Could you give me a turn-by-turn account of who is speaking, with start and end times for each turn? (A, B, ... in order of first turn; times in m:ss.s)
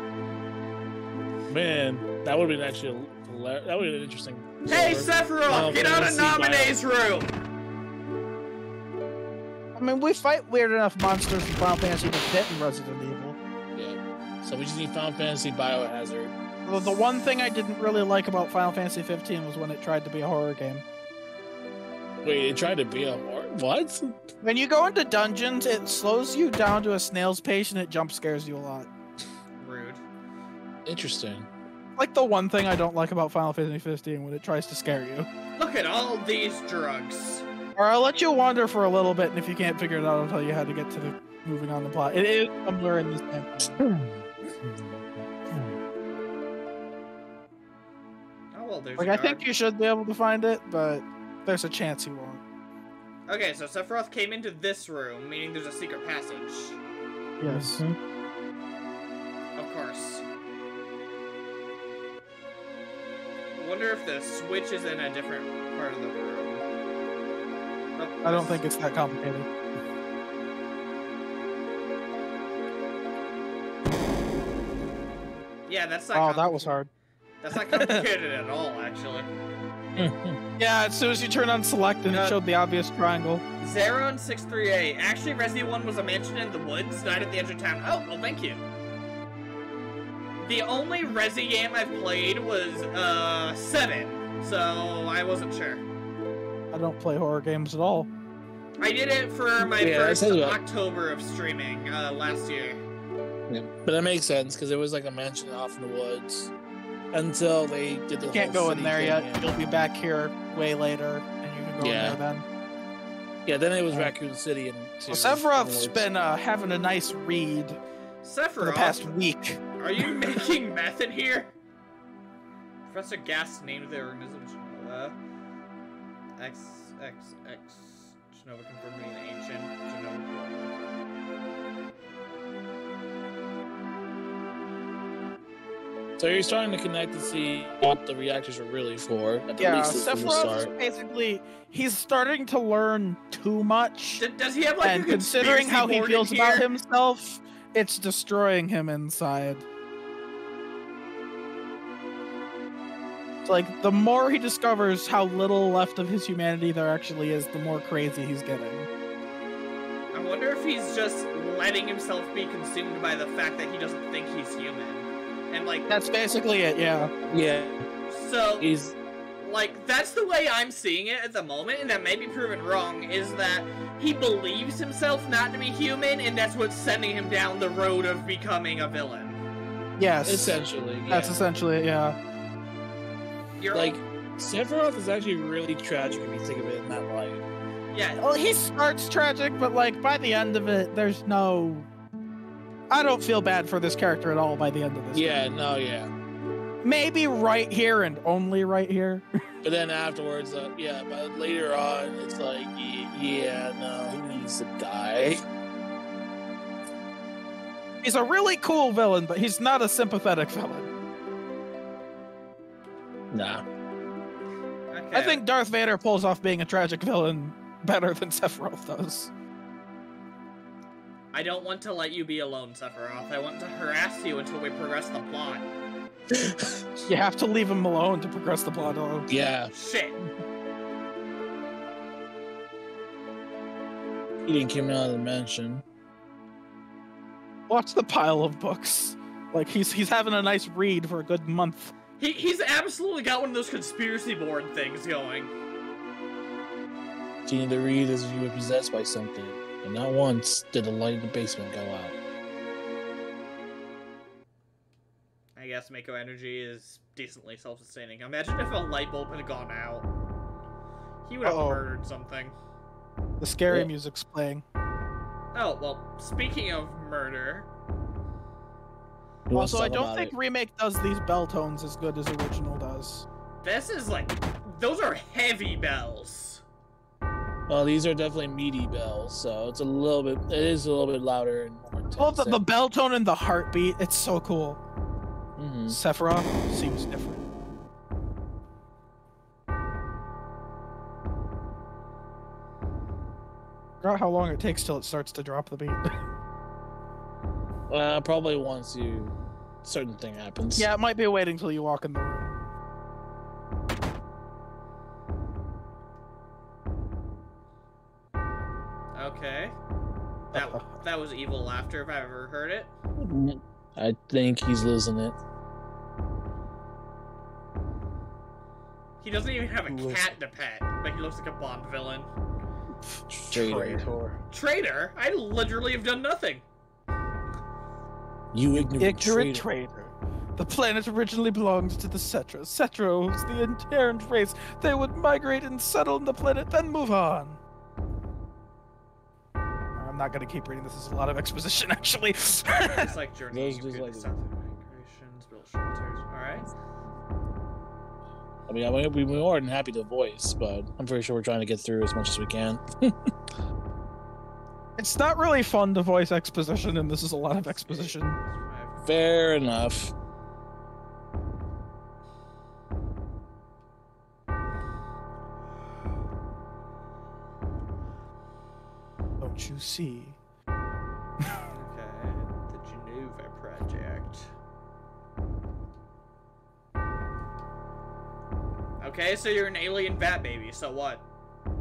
0:01.5-0:06.8 A
0:04.7-0:07.3 B
0:09.8-0:13.4 C
0:13.7-0:17.0 A
0:16.6-0:20.8 C
0:22.2-0:24.2 A
0:24.4-0:28.9 C
0:29.6-0:30.0 B
0:30.8-0:31.5 A
0:32.0-0:35.3 C
0:35.6-0:37.4 B
0:37.8-0:43.8 C
0:43.8-0:45.8 A
0:48.5-0:49.4 B
0:49.0-0:52.4 C
0:53.3-0:56.8 B
0:57.4-0:57.8 C
0:57.4-0:58.0 A
0:59.6-1:00.2 B
1:03.6-1:06.6 B
1:08.0-1:08.6 B
1:08.2-1:09.5 C
1:15.7-1:16.7 B
1:16.1-1:16.9 C
1:17.4-1:19.3 B
1:17.7-1:18.0 C
1:20.0-1:20.4 A
1:20.6-1:23.4 C
1:22.1-1:22.4 B
1:23.6-1:28.6 B
1:30.4-1:35.8 B
1:36.7-1:38.1 C
1:38.8-1:42.8 B
1:39.8-1:40.6 A
1:43.5-1:46.5 A
1:47.1-1:49.6 A
1:48.3-1:52.4 C
1:51.8-1:52.2 A
1:53.4-1:56.1 A
1:55.1-1:57.8 C
1:58.2-1:59.2 B
1:58.6-2:00.2 C
1:59.8-2:01.5 B
2:02.9-2:05.2 B
2:06.4-2:10.7 B
2:16.2-2:20.7 A
2:19.6-2:24.2 C
2:24.2-2:26.6 B
2:24.8-2:29.6 C
2:33.4-2:38.9 C
2:40.1-2:45.9 B
2:45.9-2:47.1 C
2:47.3-2:47.9 A
2:48.1-2:48.7 B
2:48.6-2:49.0 A
2:49.4-2:59.4 B
3:00.0-3:02.2 C
3:00.2-3:01.4 A
3:03.6-3:04.0 B
3:03.7-3:07.4 A
3:07.9-3:08.2 B
3:08.2-3:11.9 C
3:12.9-3:15.5 C
3:15.1-3:16.1 A
3:16.8-3:19.2 C
3:19.6-3:25.4 A
3:28.0-3:30.9 C
3:33.3-3:33.6 A
3:34.9-3:35.4 B
3:35.1-3:39.3 C
3:41.3-3:45.6 B
3:46.3-3:46.8 A
3:47.0-3:49.3 C
3:49.3-3:49.7 A
3:49.7-3:50.2 B
3:54.4-3:55.8 A
3:57.7-4:01.9 C
4:02.2-4:05.5 B
4:07.4-4:12.1 A
4:15.6-4:20.1 B
4:21.2-4:22.5 B
4:21.4-4:21.8 C
4:23.4-4:24.6 C
4:25.5-4:27.7 B
4:29.5-4:30.3 A
4:29.5-4:33.2 C
4:33.6-4:36.6 B
4:37.7-4:42.6 A
4:42.1-4:44.8 C
4:45.6-4:46.0 A
4:45.9-4:47.5 C
4:54.0-4:56.1 C
4:57.9-5:00.9 A
5:00.8-5:02.5 C
5:09.1-5:09.8 B
5:10.5-5:10.9 C
5:10.5-5:12.9 B
5:13.2-5:15.4 A
5:19.2-5:22.3 B
5:19.9-5:20.4 A
5:23.3-5:24.4 A
5:23.5-5:24.1 C
5:24.5-5:26.6 B
5:28.5-5:29.7 A
5:29.0-5:37.6 C
5:40.0-5:43.1 C
5:42.7-5:46.7 B
5:43.5-5:44.3 A
5:48.7-5:53.3 A
5:55.0-5:58.4 C
5:57.5-5:59.0 B
5:59.0-6:00.1 A
6:09.4-6:10.4 C
6:11.7-6:14.5 B
6:19.0-6:21.2 B